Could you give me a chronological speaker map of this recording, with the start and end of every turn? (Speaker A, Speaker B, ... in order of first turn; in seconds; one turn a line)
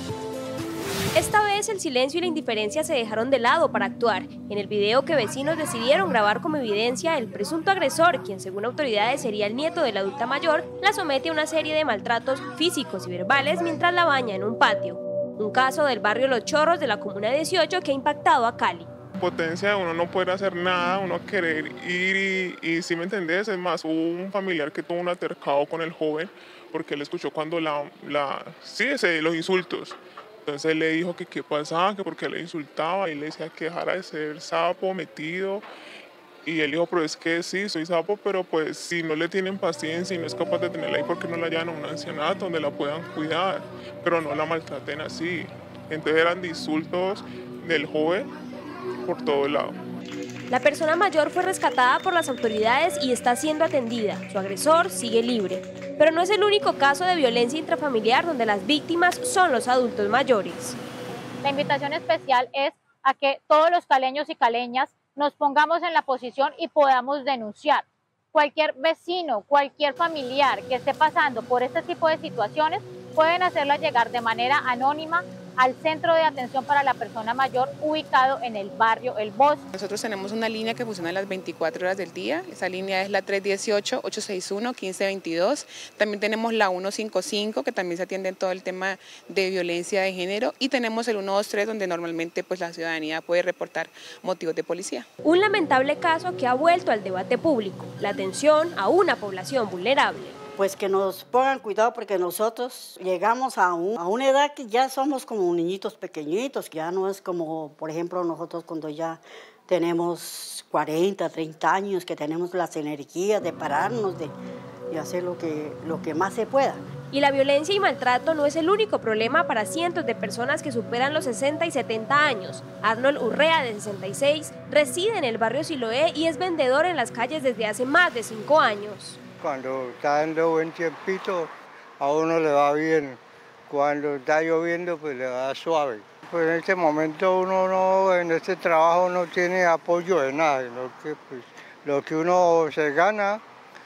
Speaker A: 1.1-18.9
Speaker B: 19.2-35.6
Speaker B: 36.4-48.3
Speaker B: 49.0-49.8
Speaker A: 50.5-60.8
Speaker C: 61.4-79.6
Speaker D: 79.7-95.1
Speaker A: 95.2-100.3
Speaker E: 100.6-109.2
Speaker E: 109.7-114.3
Speaker E: 114.9-116.8
Speaker A: 117.1-129.2
Speaker F: 129.4-131.5
Speaker F: 132.0-133.2
Speaker F: 133.7-143.4